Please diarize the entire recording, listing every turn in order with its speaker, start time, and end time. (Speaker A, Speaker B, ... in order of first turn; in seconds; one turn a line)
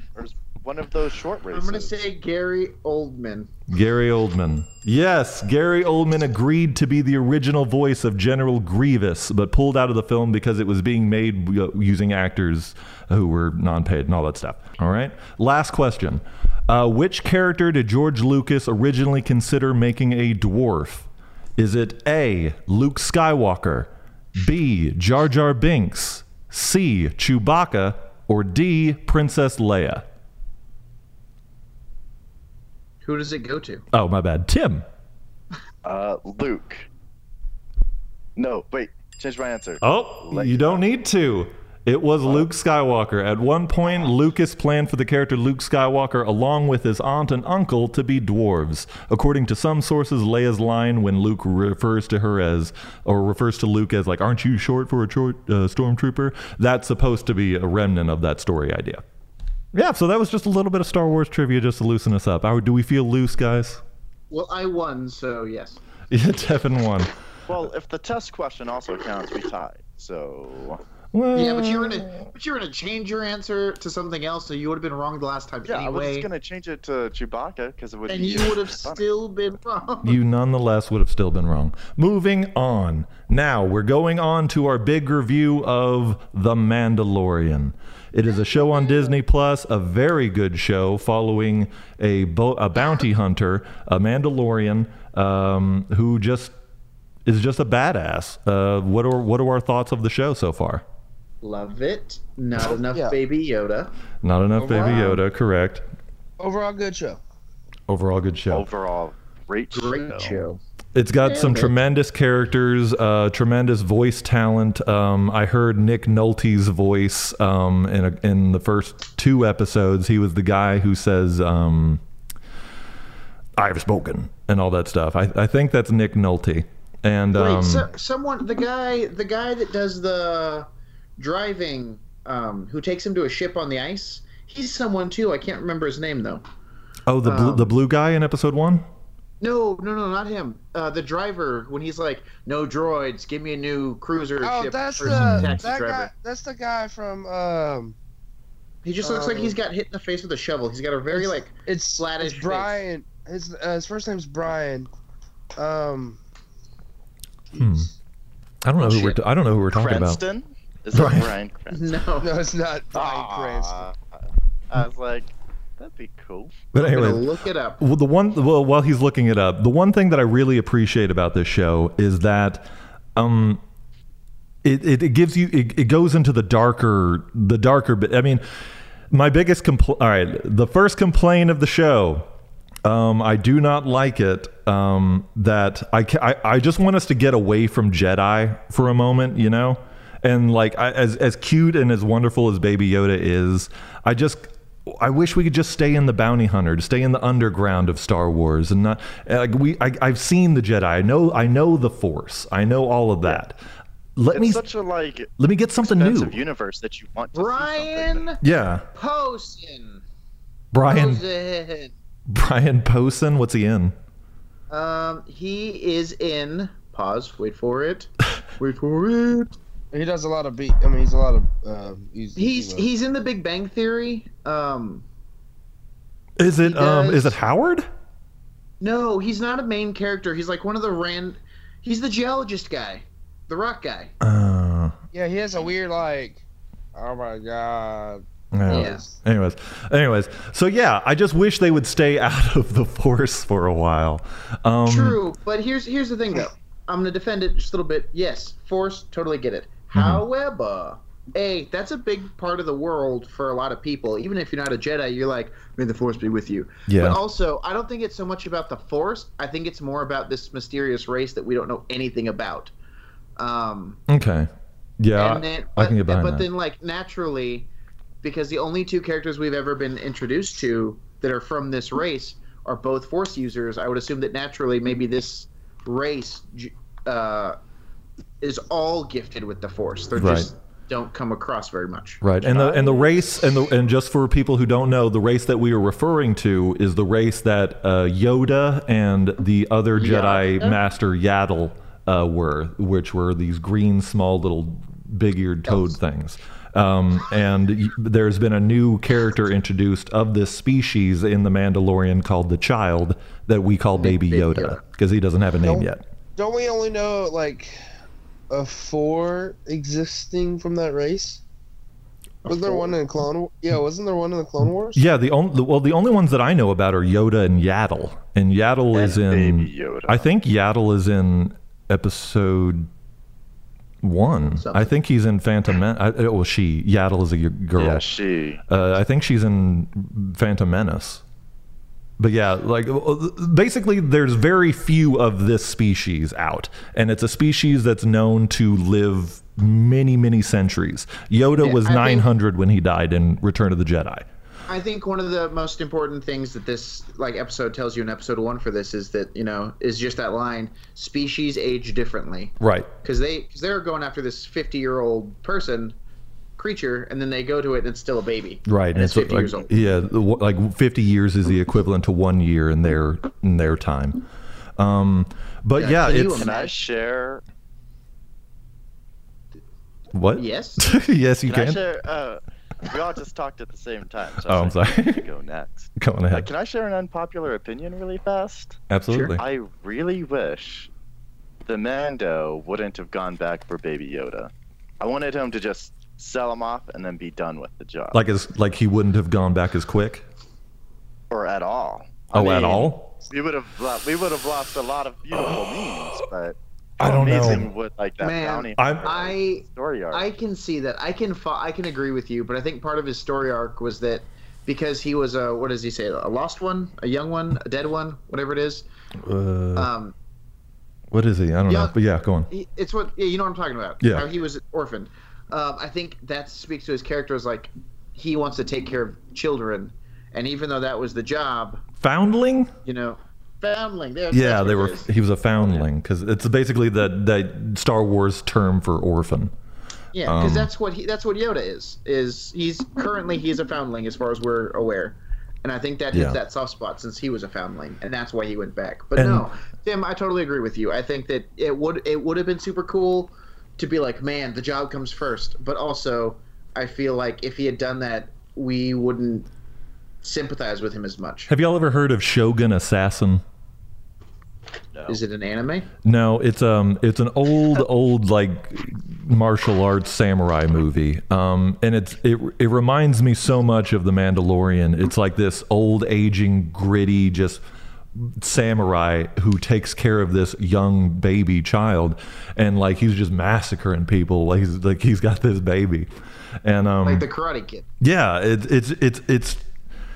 Speaker A: 0.1-1.9
Speaker B: 1.5-3.5
Speaker C: 3.7-30.1
Speaker B: 33.0-33.8
Speaker C: 33.9-34.9
Speaker A: 35.8-36.9
Speaker A: 38.4-40.8
Speaker C: 39.8-59.0
Speaker C: 59.7-63.8
Speaker B: 64.3-65.8
Speaker C: 66.1-67.1
Speaker A: 67.5-70.8
Speaker C: 71.1-72.2
Speaker B: 71.3-76.3
Speaker A: 75.7-79.0
Speaker B: 78.1-80.2
Speaker C: 80.0-96.5
Speaker B: 88.8-89.1
Speaker C: 97.2-100.8
Speaker B: 101.4-103.9
Speaker C: 104.2-105.8
Speaker D: 104.6-105.2
Speaker D: 106.4-107.2
Speaker C: 107.9-108.7
Speaker A: 108.5-110.5
Speaker B: 109.7-110.6
Speaker C: 110.9-122.0
Speaker B: 111.2-111.8
Speaker C: 123.6-127.9
Speaker B: 127.3-130.7
Speaker B: 131.2-136.4
Speaker C: 137.1-138.8
Speaker B: 137.2-137.7
Speaker B: 139.4-146.1
Speaker D: 144.4-148.0
Speaker C: 145.0-145.6
Speaker B: 148.8-152.7
Speaker D: 149.0-149.6
Speaker D: 151.1-154.9
Speaker D: 155.6-156.2
Speaker C: 157.6-157.9
Speaker C: 158.6-160.2
Speaker B: 158.8-159.2
Speaker A: 159.7-161.9
Speaker C: 160.9-161.4
Speaker B: 161.7-162.3
Speaker D: 162.2-163.9
Speaker A: 162.9-164.2
Speaker A: 164.7-166.6
Speaker C: 166.7-167.2
Speaker B: 166.8-167.8
Speaker C: 167.8-173.6
Speaker C: 174.6-178.4
Speaker C: 179.1-182.3
Speaker C: 182.8-203.6
Speaker C: 204.2-204.6
Speaker A: 204.3-208.3
Speaker C: 205.4-206.4
Speaker B: 207.3-208.4
Speaker C: 208.4-208.8
Speaker B: 208.9-210.0
Speaker C: 210.7-211.2
Speaker B: 210.9-211.9
Speaker C: 212.3-213.9
Speaker B: 214.7-219.5
Speaker D: 219.9-222.9
Speaker B: 222.4-225.0
Speaker C: 226.4-227.9
Speaker B: 226.6-227.4
Speaker B: 228.8-234.1
Speaker C: 234.2-234.9
Speaker D: 235.1-236.4
Speaker D: 236.9-239.2
Speaker C: 238.5-245.2
Speaker B: 238.7-239.0
Speaker B: 244.9-262.7
Speaker C: 249.9-250.2
Speaker C: 256.9-257.2
Speaker B: 263.4-264.0
Speaker C: 264.1-264.5
Speaker C: 265.0-266.5
Speaker B: 265.1-267.7
Speaker B: 268.2-277.6
Speaker B: 278.4-283.2
Speaker C: 280.2-280.5
Speaker C: 282.2-306.0
Speaker B: 290.0-290.8
Speaker B: 295.7-295.9
Speaker B: 303.9-304.8
Speaker D: 305.6-307.8
Speaker D: 308.5-311.4
Speaker B: 312.4-313.0
Speaker D: 312.5-315.0
Speaker C: 314.9-322.9
Speaker A: 318.9-320.2
Speaker C: 324.0-328.0
Speaker B: 324.6-324.9
Speaker A: 327.8-328.6
Speaker C: 328.7-331.2
Speaker C: 332.2-344.2
Speaker B: 341.6-342.3
Speaker B: 344.7-356.0
Speaker C: 352.6-352.9
Speaker B: 356.6-359.7
Speaker C: 358.6-364.2
Speaker C: 364.8-366.5
Speaker B: 365.8-366.8
Speaker A: 366.4-367.4
Speaker C: 370.1-371.8
Speaker B: 370.4-370.8
Speaker A: 371.4-380.9
Speaker C: 374.4-375.2
Speaker C: 376.0-376.5
Speaker C: 378.9-379.4
Speaker A: 381.6-388.2
Speaker C: 388.1-390.2
Speaker A: 391.3-400.3
Speaker C: 392.3-393.1
Speaker C: 397.0-397.7
Speaker B: 398.2-408.9
Speaker C: 398.8-399.2
Speaker C: 409.2-409.9
Speaker B: 409.8-410.1
Speaker C: 411.1-412.5
Speaker B: 411.7-411.9
Speaker B: 412.5-421.8
Speaker C: 422.0-422.7
Speaker B: 422.9-425.1
Speaker C: 424.3-429.5
Speaker B: 430.1-449.5
Speaker C: 430.2-430.7
Speaker C: 436.1-436.4
Speaker C: 439.1-439.5
Speaker B: 450.2-451.5
Speaker C: 451.5-453.4
Speaker B: 455.1-455.9
Speaker C: 456.0-467.6
Speaker C: 468.1-476.1
Speaker C: 476.6-477.2
Speaker B: 477.0-477.9
Speaker C: 478.0-479.6